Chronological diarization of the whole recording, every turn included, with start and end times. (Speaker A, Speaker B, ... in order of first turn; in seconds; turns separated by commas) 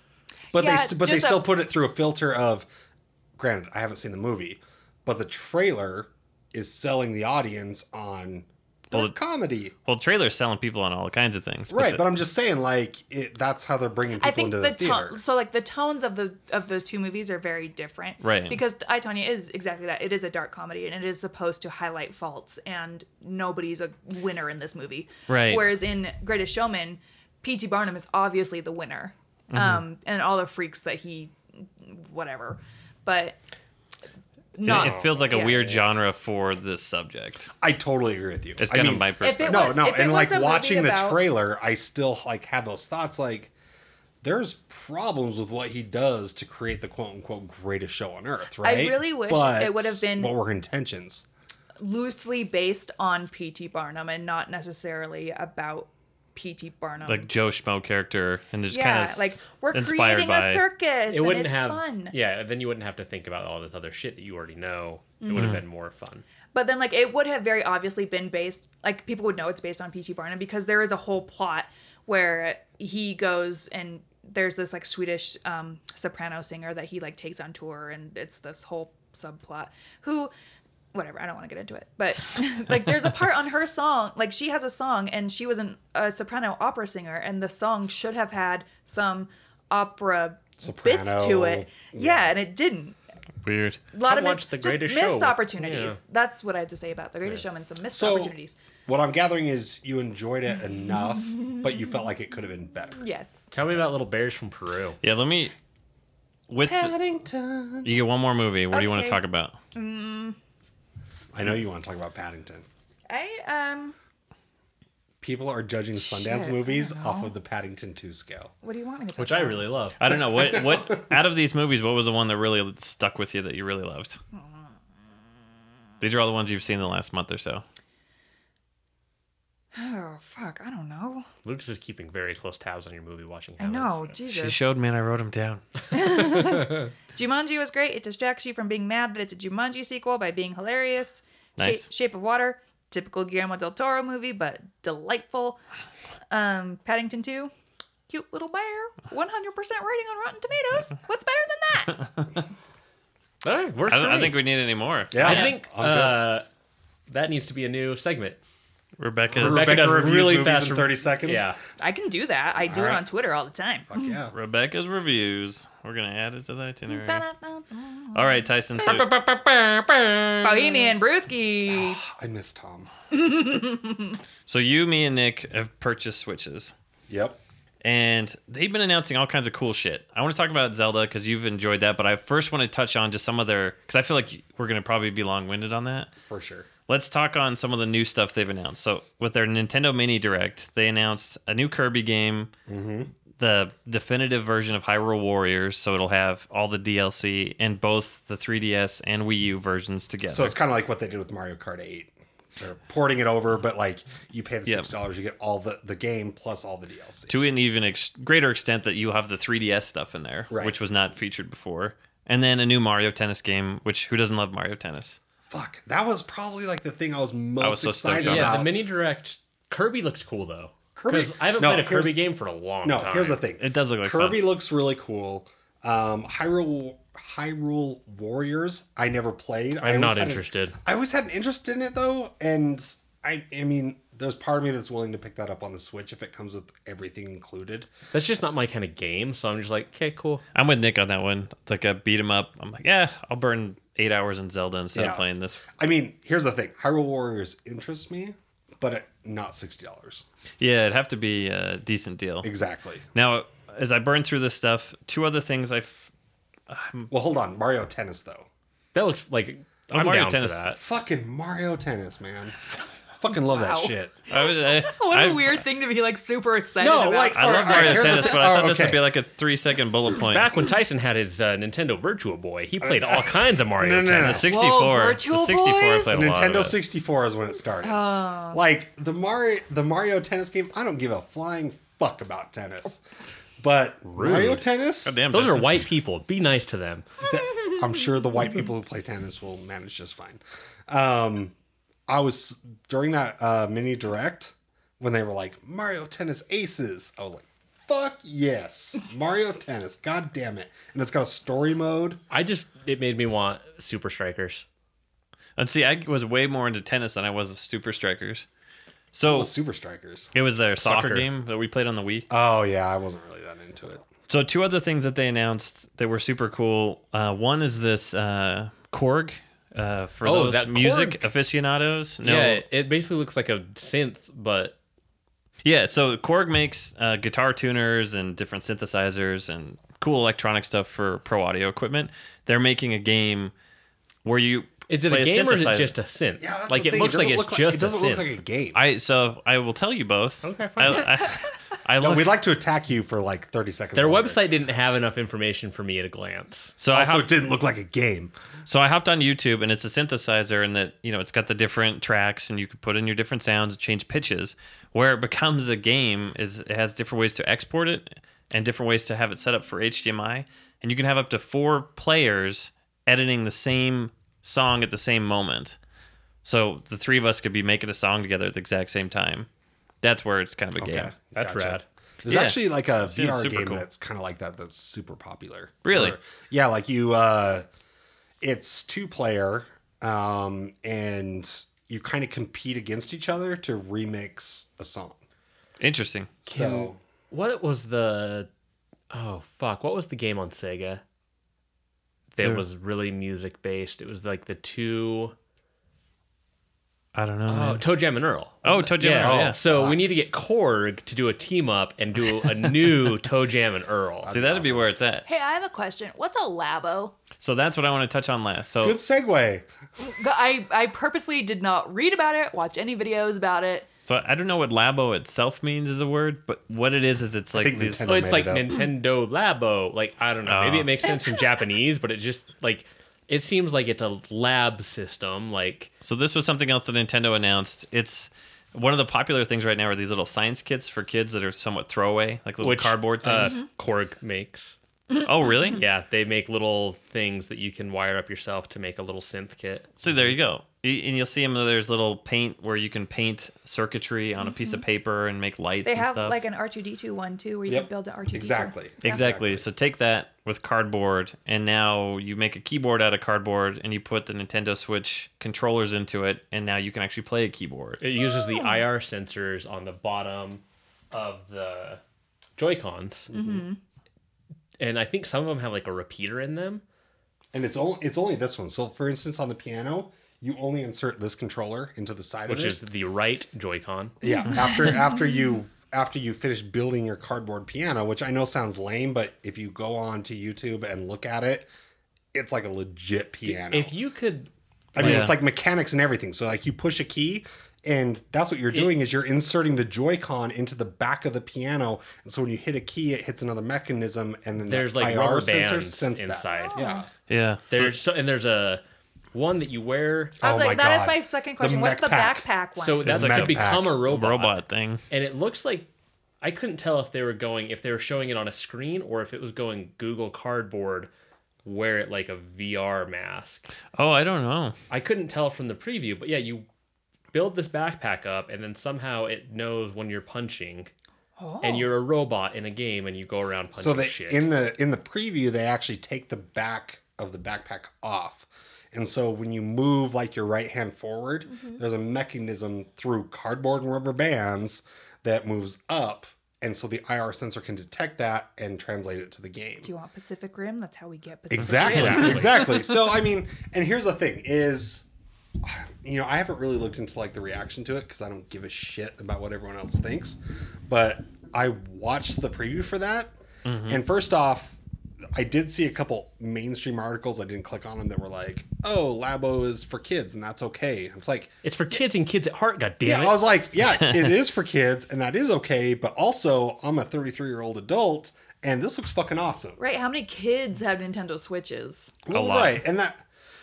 Speaker A: 0.5-1.5, Speaker B: 0.5-2.7, Speaker B: 3.4-9.7, Speaker C: 9.9-12.0, Speaker B: 11.7-15.2, Speaker A: 14.2-33.4, Speaker C: 18.2-18.6, Speaker C: 25.3-25.7, Speaker C: 29.5-29.8, Speaker A: 34.6-35.8, Speaker C: 34.6-37.5, Speaker B: 34.7-35.1, Speaker B: 37.6-43.5, Speaker C: 38.6-39.8, Speaker A: 39.2-41.2, Speaker B: 44.2-51.2, Speaker A: 48.6-50.4, Speaker A: 51.8-57.3, Speaker C: 57.1-60.6, Speaker A: 58.7-62.1, Speaker D: 61.1-66.2, Speaker A: 65.2-65.6, Speaker C: 65.3-65.6, Speaker A: 66.5-80.3, Speaker A: 80.9-93.0, Speaker B: 90.6-92.4, Speaker C: 93.4-93.8, Speaker A: 93.9-98.6, Speaker D: 94.1-96.0, Speaker B: 97.9-103.0, Speaker A: 101.2-101.9, Speaker A: 103.0-103.5, Speaker D: 103.5-105.0, Speaker C: 105.0-105.5, Speaker C: 106.5-106.9, Speaker B: 106.7-107.9, Speaker C: 107.8-109.6, Speaker A: 108.7-109.2, Speaker A: 109.7-110.4, Speaker B: 111.3-112.7, Speaker A: 113.1-114.0, Speaker B: 115.2-118.5, Speaker A: 116.0-117.3, Speaker A: 118.6-119.7, Speaker D: 119.2-120.0, Speaker C: 120.0-124.2, Speaker B: 120.1-121.1, Speaker A: 124.3-124.6, Speaker C: 126.0-127.6, Speaker A: 129.7-131.3, Speaker D: 131.4-134.1, Speaker A: 133.6-134.7, Speaker C: 134.3-135.6, Speaker A: 135.9-145.6, Speaker C: 141.6-141.9, Speaker A: 146.3-147.5, Speaker A: 148.1-152.1, Speaker D: 153.4-154.4, Speaker C: 153.9-155.6, Speaker B: 155.1-156.3, Speaker D: 155.2-156.4, Speaker D: 157.1-158.4, Speaker C: 159.0-159.9, Speaker B: 159.3-161.6, Speaker D: 159.4-161.6, Speaker A: 161.8-164.2, Speaker B: 162.6-163.0, Speaker B: 163.9-164.3, Speaker C: 164.3-167.2, Speaker A: 166.9-168.4, Speaker C: 168.2-169.1, Speaker D: 168.8-170.9, Speaker A: 170.4-172.0, Speaker B: 171.7-172.9, Speaker A: 173.1-174.2, Speaker C: 174.5-176.7, Speaker B: 177.1-177.4, Speaker C: 177.8-186.1, Speaker B: 186.2-186.7, Speaker C: 186.9-192.5, Speaker B: 192.7-193.1, Speaker C: 193.4-200.6, Speaker B: 200.3-207.4, Speaker C: 207.3-215.2, Speaker B: 215.5-218.7, Speaker C: 217.6-218.6, Speaker D: 218.2-223.4, Speaker B: 221.0-222.2, Speaker B: 222.8-237.9, Speaker C: 223.6-224.5, Speaker D: 229.8-230.8, Speaker D: 238.1-240.4, Speaker C: 240.5-245.7, Speaker B: 244.9-250.2, Speaker C: 250.6-252.5, Speaker B: 252.4-253.1, Speaker C: 253.2-256.1, Speaker C: 256.7-257.1, Speaker B: 257.1-258.5, Speaker D: 258.9-260.8, Speaker C: 259.9-260.6, Speaker B: 260.8-264.1, Speaker A: 263.4-268.3, Speaker C: 264.3-265.6, Speaker B: 266.8-269.0, Speaker C: 267.3-270.5, Speaker D: 270.2-274.5, Speaker B: 272.8-274.5, Speaker C: 274.2-276.8, Speaker A: 274.5-276.2, Speaker B: 276.1-283.0, Speaker A: 277.8-278.6, Speaker B: 283.6-285.2, Speaker D: 284.0-284.6, Speaker C: 285.1-285.8, Speaker D: 285.3-287.1, Speaker B: 287.3-291.5, Speaker B: 292.1-302.2, Speaker D: 302.3-304.7, Speaker C: 305.6-308.5, Speaker C: 309.1-309.5, Speaker B: 309.2-310.3, Speaker C: 310.4-312.3, Speaker D: 310.8-311.3, Speaker B: 312.3-314.0, Speaker C: 314.3-322.6, Speaker D: 320.2-321.3, Speaker D: 322.2-324.8, Speaker C: 325.6-333.5, Speaker C: 334.2-335.9, Speaker D: 334.9-338.2, Speaker B: 336.4-338.8, Speaker C: 338.8-342.3, Speaker D: 340.4-341.1, Speaker B: 342.0-344.4, Speaker D: 343.9-346.8, Speaker C: 346.8-347.3, Speaker B: 346.9-348.3, Speaker C: 348.7-365.8, Speaker C: 366.4-369.5, Speaker C: 370.0-371.1, Speaker B: 370.8-377.7, Speaker D: 371.4-371.8, Speaker C: 372.3-373.8, Speaker C: 375.9-376.2, Speaker B: 378.4-385.2, Speaker C: 385.8-386.4, Speaker B: 386.5-387.0, Speaker D: 386.5-388.5, Speaker D: 389.1-391.0, Speaker D: 392.3-395.3, Speaker C: 397.1-397.9, Speaker D: 397.5-404.3, Speaker C: 398.6-399.6, Speaker B: 399.1-400.0, Speaker B: 404.2-404.9, Speaker C: 404.3-405.3, Speaker A: 405.3-407.2, Speaker C: 407.4-409.0, Speaker B: 408.8-409.7, Speaker A: 410.0-413.9, Speaker C: 414.0-418.1, Speaker B: 417.5-418.8, Speaker D: 418.1-425.9, Speaker C: 420.4-421.1, Speaker C: 426.0-433.6, Speaker D: 432.6-434.8, Speaker C: 435.2-435.8, Speaker D: 435.7-440.3, Speaker C: 440.0-446.4, Speaker A: 444.4-444.8, Speaker A: 445.9-449.2, Speaker B: 447.7-449.6, Speaker C: 449.0-458.0, Speaker D: 458.0-462.0, Speaker A: 458.2-458.8, Speaker D: 462.6-463.3, Speaker B: 463.3-463.6, Speaker A: 463.3-463.8, Speaker D: 464.8-466.8, Speaker B: 467.5-472.8, Speaker D: 472.5-474.2, Speaker B: 474.2-481.7, Speaker A: 474.2-475.2, Speaker B: 482.3-483.9, Speaker D: 483.4-485.3, Speaker B: 484.9-497.1, Speaker C: 485.0-485.4, Speaker D: 494.6-496.8, Speaker A: 496.5-497.1, Speaker C: 497.3-498.0, Speaker D: 497.7-498.8, Speaker D: 499.3-500.4, Speaker B: 500.4-502.5, Speaker A: 500.4-503.1, Speaker D: 502.8-504.6, Speaker B: 503.0-504.0, Speaker C: 503.0-505.0, Speaker D: 505.1-505.9, Speaker D: 506.4-511.1, Speaker D: 511.6-513.7, Speaker C: 514.0-514.8, Speaker D: 514.9-516.7, Speaker D: 517.3-520.9, Speaker A: 521.4-521.9, Speaker D: 521.6-524.5, Speaker B: 523.8-539.9, Speaker A: 531.5-531.8, Speaker A: 539.8-542.9, Speaker B: 541.5-545.1, Speaker C: 541.8-542.4, Speaker D: 542.0-542.5, Speaker B: 545.6-553.3, Speaker C: 553.6-554.0, Speaker B: 553.9-554.8, Speaker B: 555.3-562.0, Speaker D: 561.6-563.4, Speaker B: 563.0-569.8, Speaker C: 564.0-564.3, Speaker A: 569.8-572.2, Speaker B: 572.3-573.2, Speaker C: 572.3-572.8